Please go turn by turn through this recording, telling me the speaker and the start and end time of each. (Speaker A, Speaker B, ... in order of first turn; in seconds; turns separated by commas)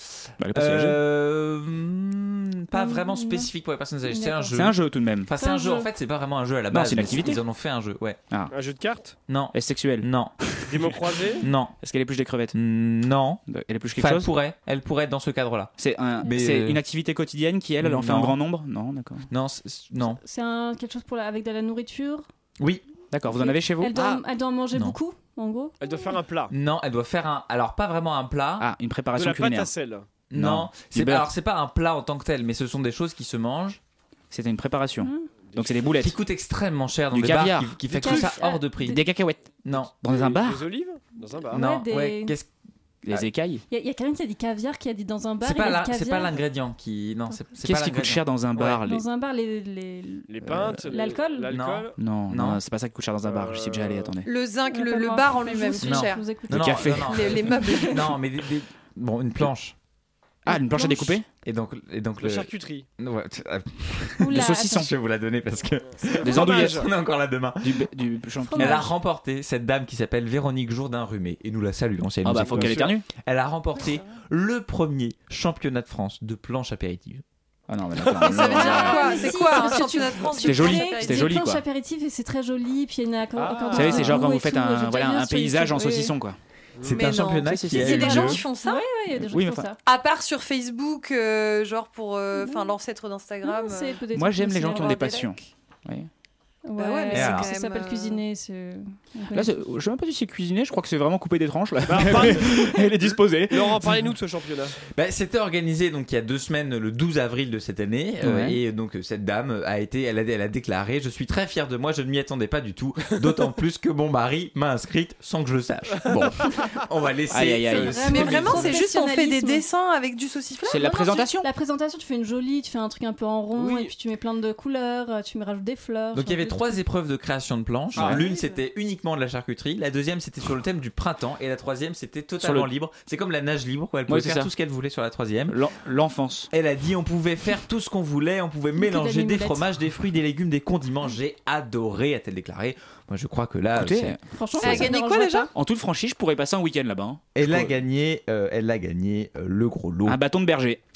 Speaker A: 0.4-1.0, Speaker B: 0.5-8.2, Speaker C: 2.7-3.5, Speaker C: 4.0-4.7, Speaker A: 4.5-5.3, Speaker C: 5.3-5.9, Speaker A: 6.7-7.4, Speaker D: 8.5-9.2, Speaker B: 9.3-10.3, Speaker A: 9.5-10.8, Speaker D: 10.7-11.4, Speaker B: 11.4-11.8, Speaker A: 11.8-12.6, Speaker B: 12.5-13.4, Speaker A: 13.5-14.3, Speaker B: 14.0-16.8, Speaker A: 15.8-19.3, Speaker B: 17.8-18.4, Speaker B: 19.3-20.2, Speaker C: 20.1-22.2, Speaker A: 23.1-24.2, Speaker C: 23.3-26.2, Speaker D: 25.8-26.5, Speaker B: 26.5-28.7, Speaker A: 28.6-29.7, Speaker D: 29.1-30.1, Speaker B: 30.3-33.8, Speaker A: 30.3-31.3, Speaker A: 34.3-36.2, Speaker C: 35.0-35.3, Speaker D: 35.5-35.9, Speaker B: 36.0-39.0, Speaker A: 37.1-40.7, Speaker C: 38.0-38.7, Speaker B: 39.6-39.9, Speaker D: 40.1-41.6, Speaker C: 41.5-42.4, Speaker B: 41.5-42.5, Speaker A: 43.0-43.6, Speaker C: 43.7-46.4, Speaker B: 45.4-48.2, Speaker A: 47.6-49.0, Speaker C: 48.7-51.6, Speaker D: 50.3-52.0, Speaker A: 50.4-50.9, Speaker B: 51.5-52.6, Speaker A: 52.0-54.3, Speaker D: 53.2-54.1, Speaker E: 54.2-56.3, Speaker C: 54.7-58.0, Speaker B: 55.8-59.8, Speaker A: 56.5-57.5, Speaker E: 57.0-58.1, Speaker A: 60.5-61.3, Speaker C: 60.5-61.2, Speaker B: 61.4-67.9, Speaker D: 62.2-62.9, Speaker C: 64.2-64.9, Speaker A: 64.3-64.9, Speaker D: 66.0-66.9, Speaker A: 66.2-66.9, Speaker A: 67.6-68.9, Speaker C: 68.4-68.9, Speaker B: 68.5-77.2, Speaker A: 72.2-73.1, Speaker D: 72.5-72.9, Speaker A: 77.7-79.2, Speaker E: 78.2-81.4, Speaker C: 78.3-86.2, Speaker A: 80.4-81.6, Speaker D: 83.4-84.2, Speaker A: 83.7-86.4, Speaker B: 86.8-88.4, Speaker E: 86.9-88.9, Speaker A: 87.4-88.4, Speaker C: 87.8-89.8, Speaker A: 89.2-89.7, Speaker E: 89.8-94.0, Speaker C: 92.4-92.8, Speaker C: 93.4-95.2, Speaker A: 94.1-96.1, Speaker E: 94.6-95.4, Speaker C: 96.7-99.6, Speaker E: 96.8-98.2, Speaker B: 97.1-97.5, Speaker A: 99.3-104.0, Speaker D: 101.9-102.8, Speaker D: 103.5-104.8, Speaker B: 104.9-118.7, Speaker A: 108.2-108.6, Speaker A: 117.3-118.3, Speaker C: 117.7-119.7, Speaker E: 118.1-121.2, Speaker A: 120.7-121.5, Speaker C: 120.9-126.8, Speaker D: 123.6-123.9, Speaker B: 126.1-135.6, Speaker A: 128.0-128.2, Speaker C: 128.2-128.6, Speaker A: 132.4-132.7, Speaker A: 134.1-134.5, Speaker A: 135.5-136.5, Speaker B: 136.5-144.2, Speaker C: 138.8-139.7, Speaker A: 143.8-144.9, Speaker C: 144.3-145.5, Speaker E: 144.6-145.5, Speaker A: 145.5-147.8, Speaker B: 147.3-150.2, Speaker A: 150.1-150.8